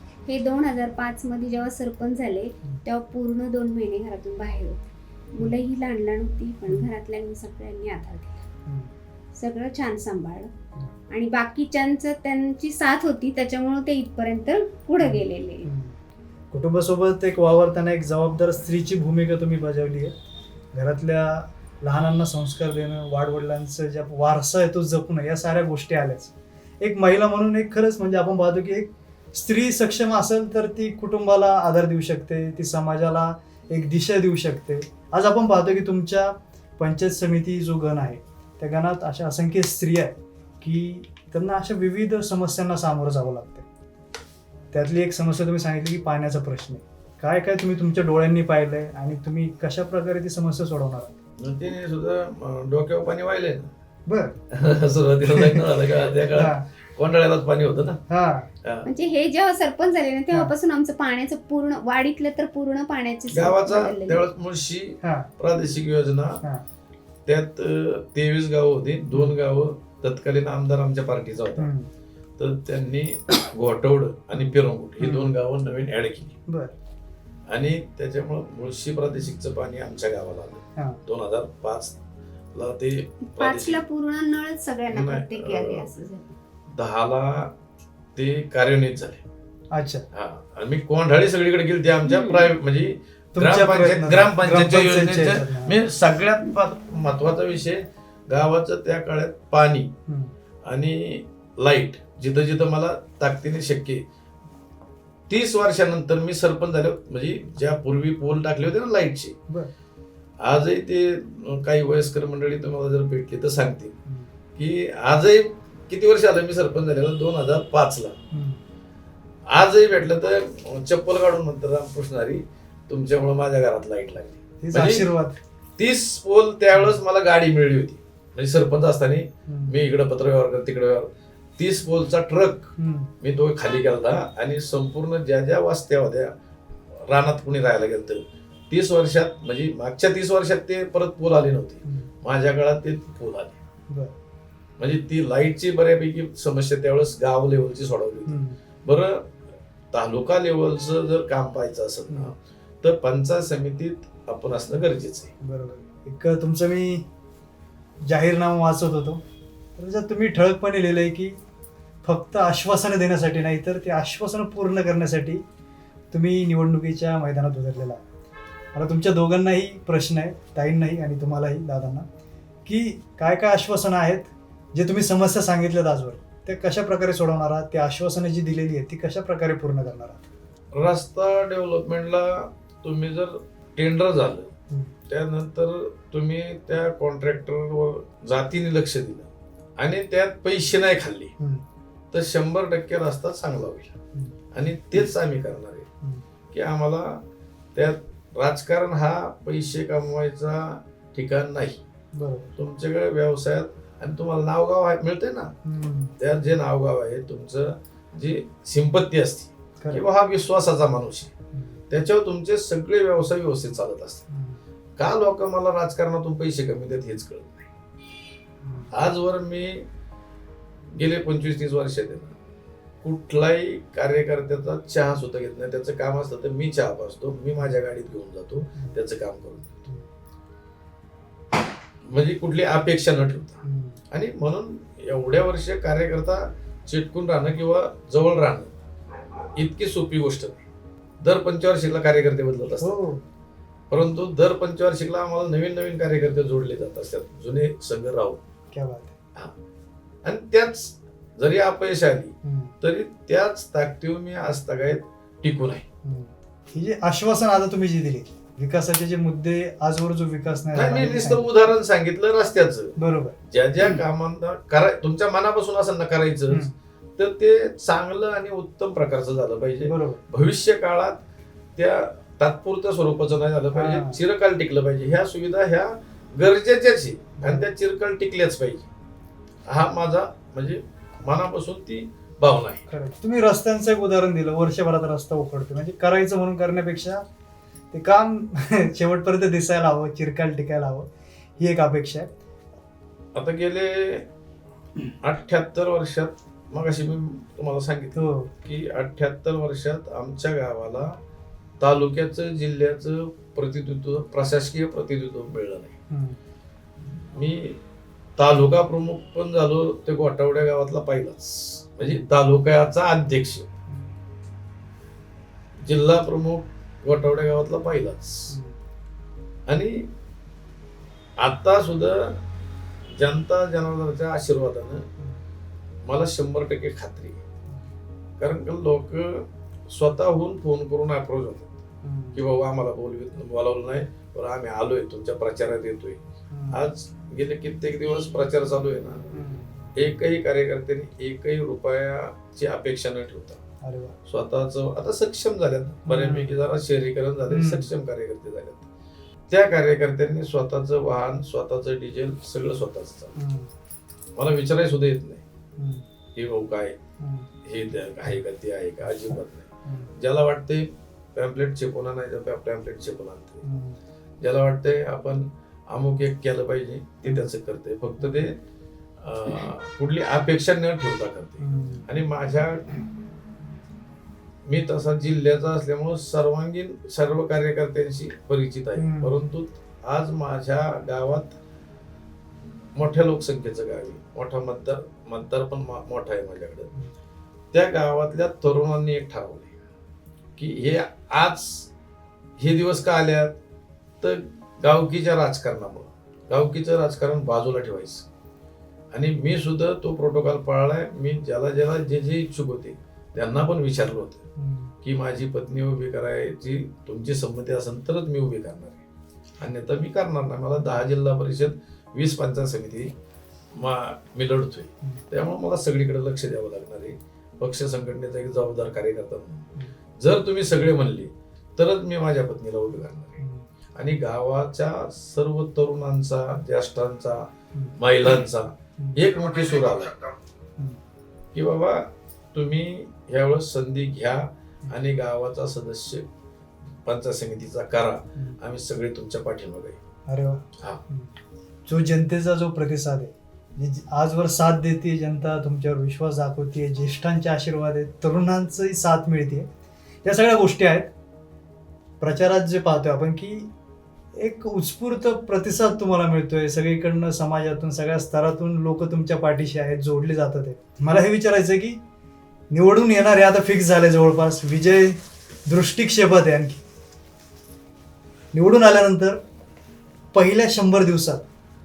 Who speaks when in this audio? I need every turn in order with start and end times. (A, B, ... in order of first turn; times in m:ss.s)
0:00.2-0:04.8 A
0:05.3-0:08.4 A
0:06.7-0:06.9 B
0:08.7-0:08.9 B
0:09.4-0:10.5 A
0:11.1-0:15.7 A
0:15.0-0:16.0 B
0:16.5-0:20.1 B
0:20.7-0:43.6 B
0:44.7-0:51.1 B
0:51.4-0:53.7 C
0:54.1-0:54.4 B
0:54.5-0:58.0 C
0:55.2-0:55.7 B
0:56.3-0:56.6 B
0:58.1-0:58.5 B
0:58.6-0:58.9 C
0:58.9-1:04.2 A
1:03.3-1:06.4 C
1:05.0-1:05.3 B
1:07.2-1:11.7 C
1:11.6-1:11.9 B
1:12.4-1:16.4 C
1:14.4-1:15.4 B
1:16.5-1:16.7 B
1:17.5-1:22.0 C
1:22.5-1:23.8 C
1:23.3-1:26.3 A
1:24.9-1:25.9 C
1:26.7-1:27.5 C
1:28.2-1:29.2 C
1:29.7-1:30.1 B
1:30.1-1:39.9 C
1:32.1-1:32.5 A
1:33.3-1:35.8 B
1:40.1-1:40.3 B
1:40.6-1:44.0 C
1:45.3-1:49.4 C
1:50.4-1:54.0 C
1:54.6-1:58.2 C
1:58.3-1:58.6 B
1:59.5-2:05.1 C
2:04.6-2:05.4 B
2:05.8-2:16.3 C
2:09.5-2:09.8 B
2:12.8-2:13.1 B
2:17.0-2:23.6 C
2:24.8-2:29.3 C
2:28.3-2:28.6 B
2:29.9-2:35.3 C
2:35.4-2:37.1 B
2:38.0-2:39.2 B
2:39.8-2:41.4 B
2:42.0-2:45.4 B
2:46.1-2:48.0 B
2:48.7-2:52.1 B
2:52.6-3:00.2 B
3:00.7-3:04.5 C
3:05.1-3:11.3 C
3:12.1-3:14.0 C
3:14.5-3:15.9 C
3:16.5-3:17.2 C
3:17.8-3:21.8 C
3:22.1-3:22.5 B
3:22.6-3:25.5 C
3:25.6-3:26.1 B
3:26.2-3:31.3 C
3:31.5-3:31.8 B
3:31.9-3:34.2 C
3:34.3-3:34.6 B
3:35.0-3:37.6 C
3:38.6-3:38.9 B
3:38.9-3:39.9 C
3:40.9-3:42.4 C
3:43.0-3:49.8 C
3:52.1-3:58.7 C
3:53.6-3:54.0 B
3:59.5-4:00.6 C
4:01.2-4:03.0 C
4:02.8-4:03.2 B
4:03.9-4:08.4 C
4:08.7-4:09.1 B
4:10.2-4:15.8 C
4:12.4-4:12.7 B
4:16.0-4:21.4 B
4:20.7-4:23.0 C
4:23.0-4:24.0 B
4:23.5-4:26.6 C
4:27.2-4:31.2 C
4:29.8-4:30.2 B
4:31.8-4:38.9 C
4:33.7-4:34.2 B
4:37.4-4:37.7 B
4:39.7-4:42.8 C
4:42.9-4:47.2 B
4:47.9-4:52.3 B
4:53.4-4:54.3 C
4:55.2-5:01.2 C
4:58.1-4:58.5 B
5:01.8-5:06.0 C
5:06.1-5:06.4 B
5:07.1-5:07.8 C
5:08.4-5:13.7 C
5:15.8-5:18.5 C
5:18.5-5:18.8 B
5:19.7-5:20.0 C
5:21.4-5:22.4 C
5:23.1-5:25.1 C
5:26.1-5:27.4 C
5:28.4-5:31.7 C
5:32.0-5:32.4 B
5:32.4-5:39.2 C
5:36.5-5:36.9 B
5:39.3-5:39.8 B
5:40.0-5:43.6 C
5:43.8-5:44.1 B
5:44.2-5:48.9 C
5:46.1-5:46.5 B
5:47.5-5:47.9 B
5:49.5-5:53.3 C
5:53.4-5:53.7 B
5:54.4-5:55.4 C
5:55.8-5:56.0 B
5:56.4-5:57.0 C
5:57.2-5:57.5 B
5:57.6-6:03.6 C
5:59.9-6:00.1 B
6:03.6-6:04.0 B
6:04.4-6:08.6 C
6:09.2-6:13.0 C
6:11.6-6:12.1 B
6:14.6-6:21.6 C
6:19.0-6:19.4 B
6:23.0-6:26.9 C
6:27.7-6:29.7 C
6:30.6-6:31.9 C
6:32.6-6:33.6 C
6:34.2-6:38.2 C
6:39.1-6:44.4 C
6:44.6-6:44.9 B
6:45.0-6:49.0 C
6:49.6-6:53.1 C
6:53.8-6:59.7 C
7:00.2-7:03.4 C
7:03.4-7:03.6 B
7:04.0-7:10.2 C
7:11.5-7:16.3 C
7:17.0-7:20.0 C
7:20.3-7:21.3 B
7:20.8-7:21.0 C
7:21.9-7:29.7 B
7:30.2-7:31.1 B
7:32.2-7:33.7 B
7:34.3-7:42.0 B
7:42.7-7:46.8 B
7:48.5-7:49.4 B
7:50.3-7:51.4 B